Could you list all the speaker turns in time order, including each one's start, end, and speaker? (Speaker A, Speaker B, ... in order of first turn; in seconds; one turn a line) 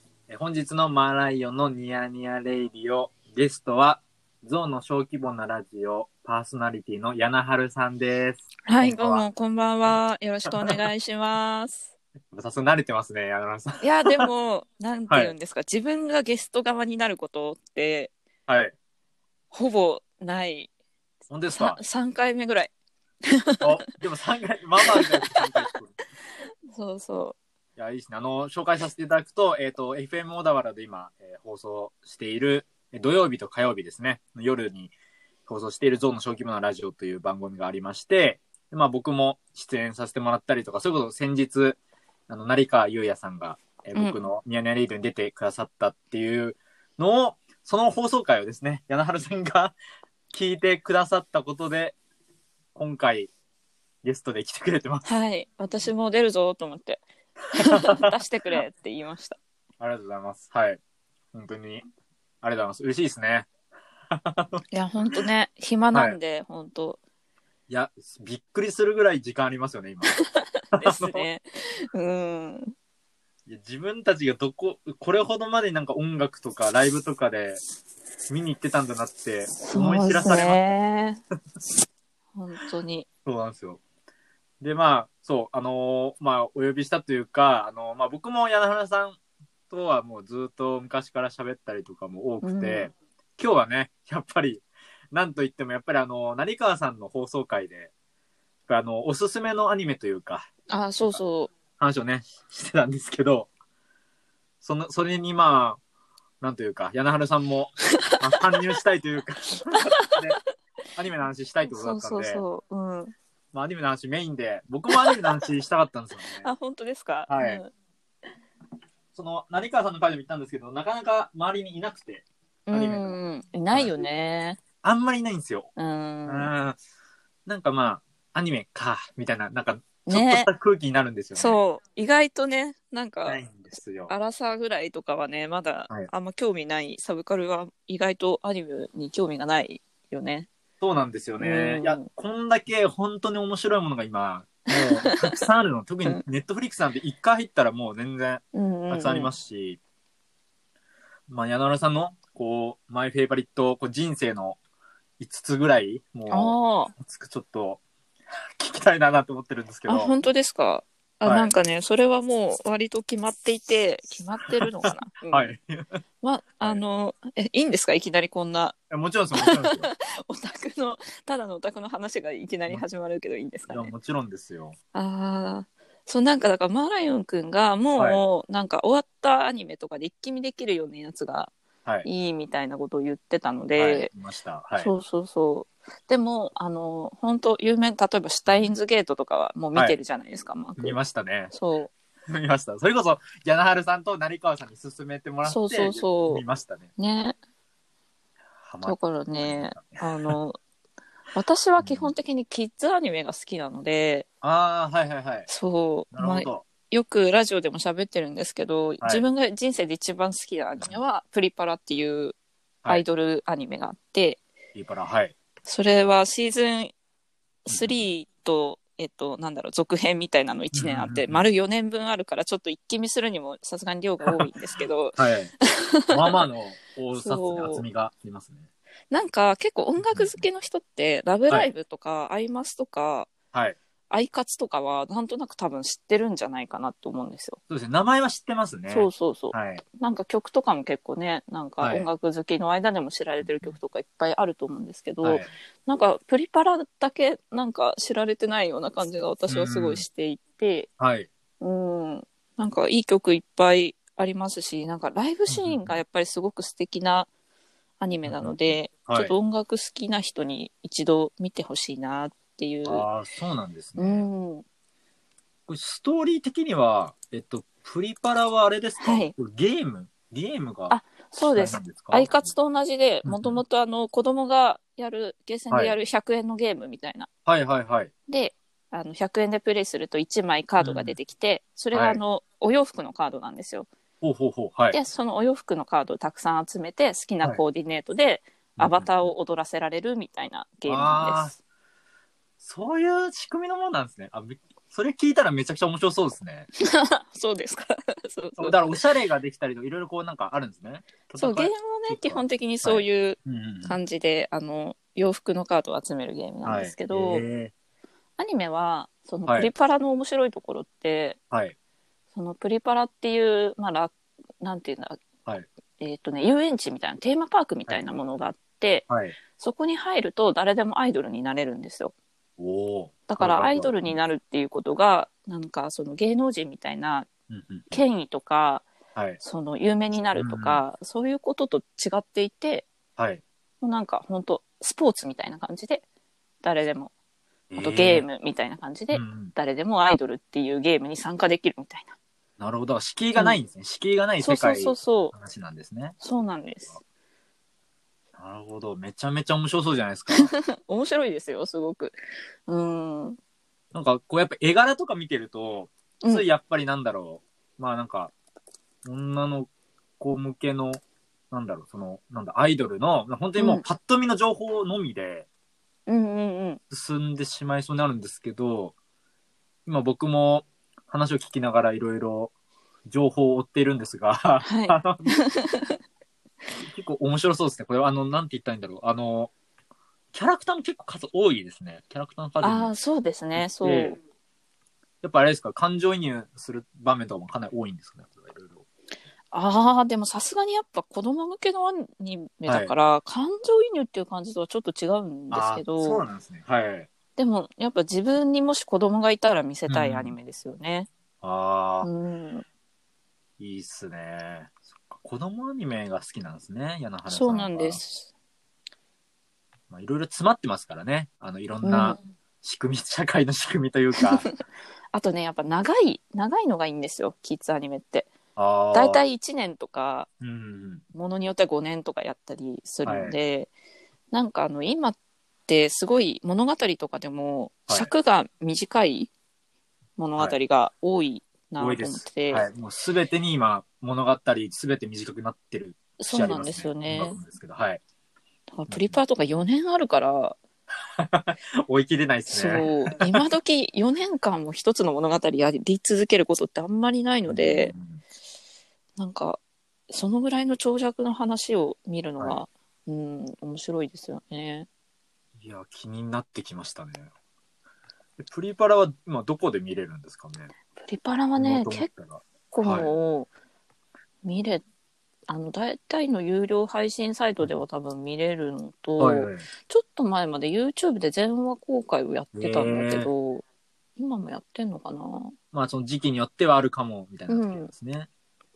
Speaker A: 0.3-9.3
Speaker B: 8.7-11.9
Speaker A: 10.5-10.8
Speaker A: 12.3-14.3
Speaker B: 13.8-18.1
Speaker A: 15.1-15.3
Speaker A: 18.5-18.7
Speaker B: 19.5-20.7
Speaker A: 21.3-21.8
Speaker B: 21.5-22.7
Speaker B: 23.3-23.7
Speaker A: 23.6-26.0
Speaker B: 24.8-25.7
Speaker B: 26.7-27.4
Speaker A: 27.8-34.9
Speaker A: 35.5-41.8
Speaker A: 42.3-49.8
Speaker A: 50.3-52.0
Speaker A: 52.8-53.3
Speaker A: 54.0-55.1
Speaker B: 55.0-57.0
Speaker B: 57.5-59.4
Speaker A: 57.6-58.1
Speaker A: 59.8-60.8
Speaker A: 61.3-61.9
Speaker A: 62.4-63.5
Speaker A: 64.1-64.6
Speaker B: 64.7-67.0
Speaker A: 67.7-70.2
Speaker B: 70.1-72.7
Speaker A: 70.7-71.3
Speaker A: 73.5-77.6
Speaker A: 78.3-80.6
Speaker B: 79.6-81.2
Speaker B: 82.4-83.1
Speaker A: 83.3-83.8
Speaker A: 84.6-89.2
Speaker A: 89.7-97.9
Speaker B: 92.4-92.9
Speaker A: 98.7-100.5
Speaker B: 100.7-101.5
Speaker A: 101.8-103.5
Speaker A: 104.6-105.8
Speaker A: 106.4-110.4
Speaker A: 111.0-112.4
Speaker B: 111.7-113.1
Speaker A: 113.5-116.5
Speaker B: 114.9-115.2
Speaker B: 116.4-117.7
Speaker A: 117.3-117.6
Speaker A: 119.1-124.0
Speaker B: 122.7-124.6
Speaker A: 124.8-125.7
Speaker B: 125.8-126.5
Speaker A: 126.3-126.8
Speaker A: 127.5-131.6
Speaker B: 130.1-130.5
Speaker B: 131.4-133.4
Speaker A: 133.2-134.2
Speaker B: 134.1-140.5
Speaker A: 140.8-149.8
Speaker B: 141.4-142.1
Speaker B: 144.7-145.4
Speaker B: 148.5-149.3
Speaker A: 151.3-154.6
Speaker A: 155.2-157.8
Speaker B: 156.3-156.9
Speaker A: 158.6-160.2
Speaker B: 159.9-165.5
Speaker A: 161.2-161.5
Speaker A: 164.8-166.0
Speaker B: 166.2-168.8
Speaker A: 168.9-169.9
Speaker B: 169.3-173.9
Speaker A: 173.7-174.8
Speaker B: 174.9-181.5
Speaker A: 177.9-178.2
Speaker B: 182.0-184.1
Speaker A: 183.8-184.9
Speaker B: 184.8-191.0
Speaker A: 190.8-191.5
Speaker B: 191.5-191.9
Speaker A: 192.3-196.9
Speaker B: 195.4-196.4
Speaker B: 197.0-197.4
Speaker A: 198.6-200.4
Speaker B: 198.8-200.6
Speaker B: 201.3-204.3
Speaker A: 201.8-202.1
Speaker A: 204.4-205.5
Speaker B: 205.5-214.4
Speaker A: 206.1-206.7
Speaker A: 209.0-209.3
Speaker A: 214.8-215.3
Speaker B: 215.7-216.9
Speaker B: 217.7-226.4
Speaker A: 217.7-218.0
Speaker A: 220.7-221.5
Speaker A: 225.2-225.5
Speaker A: 226.1-228.7
Speaker B: 227.2-227.8
Speaker B: 229.1-233.3
Speaker A: 230.0-230.4
Speaker B: 234.1-237.6
Speaker A: 237.7-239.8
Speaker B: 238.9-250.9
Speaker A: 241.8-242.1
Speaker A: 243.4-243.7
Speaker A: 245.2-245.5
Speaker A: 249.5-250.0
Speaker A: 251.0-251.3
Speaker B: 251.6-257.3
Speaker A: 255.5-256.0
Speaker B: 258.0-263.1
Speaker A: 258.2-259.4
Speaker A: 262.9-264.3
Speaker B: 264.0-264.6
Speaker A: 265.7-272.5
Speaker B: 269.0-269.3
Speaker B: 270.9-277.3
Speaker A: 273.2-273.6
Speaker A: 275.7-276.0
Speaker A: 277.5-278.1
Speaker B: 278.3-283.9
Speaker A: 280.8-281.1
Speaker A: 281.9-282.2
Speaker A: 284.2-285.0
Speaker B: 284.9-291.6
Speaker A: 288.8-289.3
Speaker A: 290.9-291.6
Speaker A: 292.6-296.7
Speaker B: 296.8-299.0
Speaker A: 298.6-304.0
Speaker B: 301.4-307.5
Speaker A: 306.6-307.7
Speaker B: 308.4-311.4
Speaker A: 309.5-309.7
Speaker A: 311.5-311.8
Speaker B: 312.4-315.2
Speaker B: 316.0-322.1
Speaker A: 319.1-319.4
Speaker A: 322.6-324.2
Speaker B: 323.3-327.3
Speaker A: 327.5-328.0
Speaker B: 327.9-328.9
Speaker A: 329.1-329.4
Speaker B: 329.4-332.9
Speaker A: 330.3-330.8
Speaker A: 333.2-333.4
Speaker B: 333.8-336.0
Speaker B: 336.6-337.1
Speaker A: 337.7-338.3
Speaker B: 337.8-342.1
Speaker A: 339.1-339.5
Speaker A: 342.6-346.2
Speaker B: 343.4-343.6
Speaker B: 344.4-345.3
Speaker B: 346.2-347.0
Speaker A: 348.4-350.5
Speaker B: 350.3-353.4
Speaker A: 353.9-358.3
Speaker A: 359.1-365.5
Speaker B: 363.6-363.8
Speaker B: 366.1-366.8
Speaker A: 366.9-368.9
Speaker A: 369.9-372.5
Speaker A: 373.1-375.3
Speaker B: 374.6-375.9
Speaker A: 376.8-379.5
Speaker A: 380.3-382.9
Speaker B: 382.6-384.2
Speaker A: 383.6-384.2
Speaker A: 385.2-388.8
Speaker B: 389.5-396.3
Speaker A: 392.7-392.9
Speaker A: 395.5-397.1
Speaker B: 397.4-401.1
Speaker A: 399.9-400.4
Speaker A: 401.4-402.1
Speaker B: 402.0-402.6
Speaker A: 403.6-408.0
Speaker B: 407.3-408.3
Speaker A: 409.9-414.5
Speaker B: 411.8-412.2
Speaker B: 414.2-414.5
Speaker B: 415.1-418.3
Speaker A: 418.6-419.2
Speaker B: 418.9-420.3
Speaker A: 420.4-421.0
Speaker B: 421.1-423.7
Speaker A: 423.0-423.4
Speaker B: 424.3-425.2
Speaker B: 425.7-429.3
Speaker B: 430.2-432.7
Speaker A: 431.8-438.0
Speaker B: 436.2-437.4
Speaker B: 438.7-440.6
Speaker A: 438.9-439.2
Speaker A: 441.2-443.4
Speaker B: 442.5-447.9
Speaker A: 447.5-448.2
Speaker B: 449.2-454.9
Speaker A: 455.6-457.3
Speaker A: 458.4-460.7
Speaker B: 461.0-462.1
Speaker A: 461.6-463.1
Speaker B: 462.7-463.5
Speaker B: 464.4-464.8
Speaker B: 465.5-473.6
Speaker A: 469.2-469.7
Speaker A: 472.6-473.3
Speaker B: 474.2-475.6
Speaker A: 475.7-478.3
Speaker B: 477.5-477.9